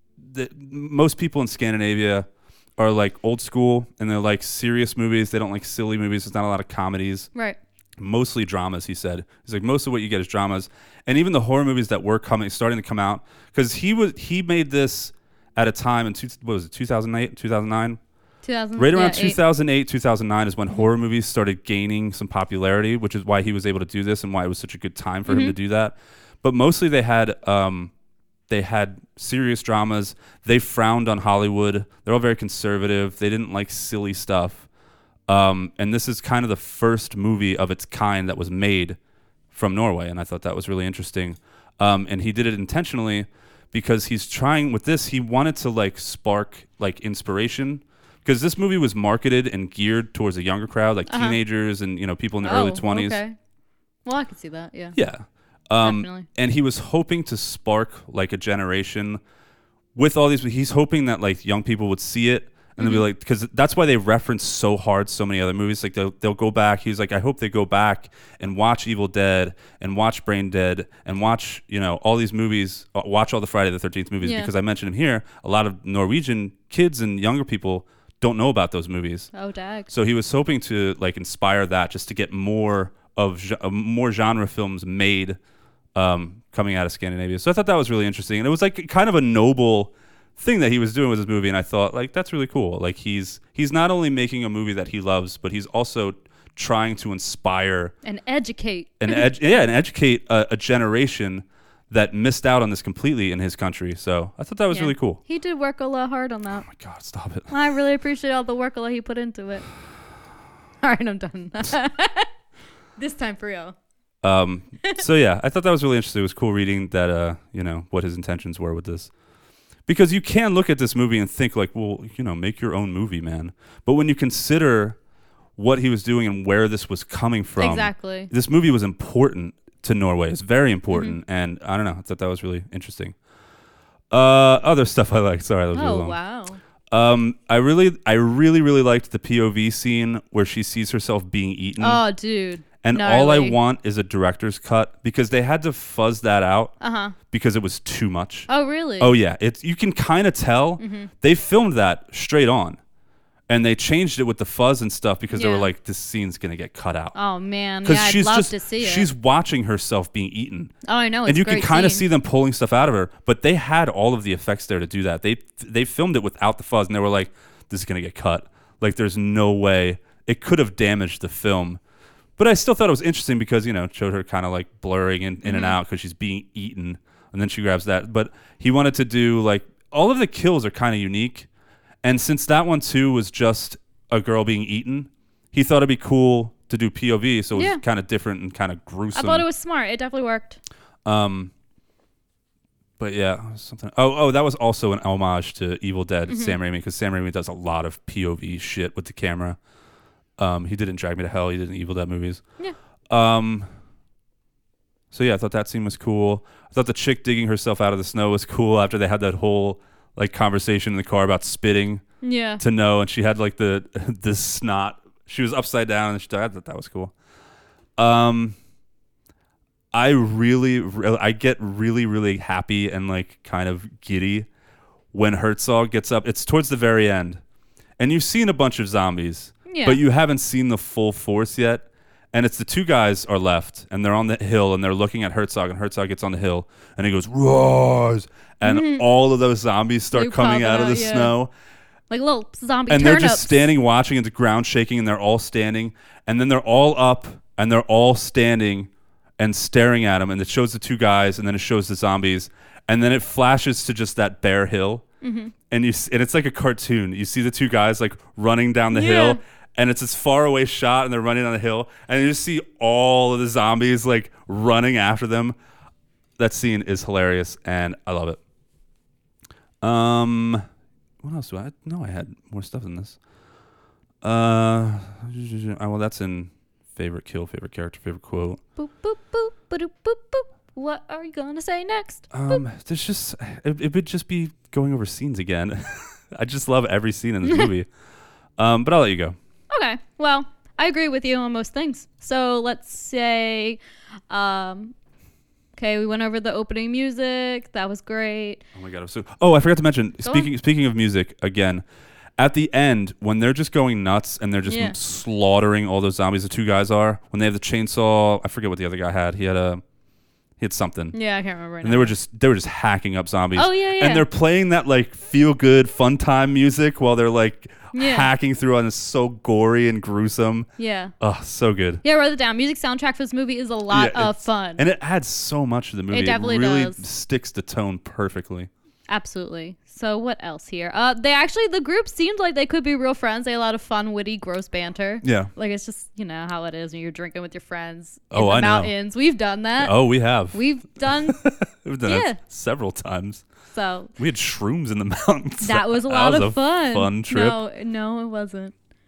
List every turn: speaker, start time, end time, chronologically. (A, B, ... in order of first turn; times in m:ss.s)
0:00.2-0:02.3 A
0:02.8-0:07.3 A
0:08.0-0:18.0 A
0:18.4-0:19.4 B
0:18.8-0:27.9 A
0:25.3-0:25.5 B
0:28.5-0:34.7 A
0:35.3-0:39.0 A
0:39.5-0:53.2 A
0:51.1-0:51.4 B
0:52.4-0:53.4 B
0:54.0-0:55.0 B
0:54.9-0:59.2 A
0:55.8-0:56.3 B
0:59.9-1:19.3 A
1:02.8-1:03.0 B
1:14.2-1:14.5 B
1:19.3-1:19.9 B
1:19.9-1:25.4 A
1:25.9-1:37.9 A
1:38.0-1:39.4 B
1:39.0-1:45.2 A
1:44.7-1:46.7 B
1:46.6-1:47.5 A
1:47.5-1:49.6 B
1:50.8-1:52.3 B
1:53.0-1:53.8 B
1:54.2-1:59.1 A
1:59.8-2:05.0 A
2:05.6-2:13.1 A
2:07.6-2:08.3 B
2:10.9-2:11.2 B
2:14.1-2:16.2 A
2:15.7-2:16.6 B
2:16.9-2:22.0 A
2:21.8-2:23.6 B
2:22.8-2:26.7 A
2:26.8-2:27.2 B
2:27.3-2:32.8 A
2:28.5-2:29.2 B
2:30.8-2:31.1 B
2:33.5-2:37.1 A
2:35.3-2:35.7 B
2:37.1-2:39.1 B
2:37.8-2:40.7 A
2:40.8-2:42.0 B
2:41.2-2:51.8 A
2:52.4-3:01.5 A
2:55.4-2:55.8 B
3:02.0-3:09.4 A
3:07.5-3:07.8 B
3:09.1-3:10.6 B
3:11.0-3:11.5 A
3:13.0-3:19.6 A
3:16.3-3:16.6 B
3:20.4-3:22.4 A
3:23.1-3:23.7 A
3:25.1-3:32.0 A
3:32.2-3:32.6 B
3:32.6-3:37.1 A
3:38.0-3:38.6 A
3:39.9-3:44.5 A
3:45.1-3:47.4 A
3:48.0-4:01.5 A
3:49.7-3:50.0 B
3:58.6-3:59.0 B
4:00.1-4:01.3 B
4:02.1-4:03.6 B
4:02.9-4:15.0 A
4:15.2-4:15.5 B
4:15.7-4:25.6 A
4:18.9-4:19.4 B
4:26.4-4:28.4 A
4:29.8-4:30.6 A
4:31.2-4:33.2 A
4:34.2-4:38.6 A
4:38.8-4:42.6 B
4:42.3-4:47.9 A
4:47.4-4:47.7 B
4:48.6-4:49.4 A
4:49.7-4:54.9 B
4:55.8-4:58.6 B
4:58.7-5:01.8 A
5:00.2-5:00.5 B
5:02.4-5:09.8 A
5:04.7-5:05.0 B
5:10.6-5:11.1 A
5:11.1-5:12.1 B
5:11.8-5:20.7 A
5:13.5-5:14.2 B
5:17.9-5:18.3 B
5:20.8-5:21.1 B
5:21.2-5:22.0 A
5:22.0-5:24.8 B
5:23.9-5:28.7 A
5:26.1-5:27.0 B
5:29.1-5:40.0 B
5:35.2-5:35.5 A
5:38.3-5:38.9 A
5:39.8-5:43.4 A
5:40.5-5:41.4 B
5:42.0-5:42.4 B
5:43.7-5:44.1 B
5:44.2-5:47.6 A
5:45.6-5:48.7 B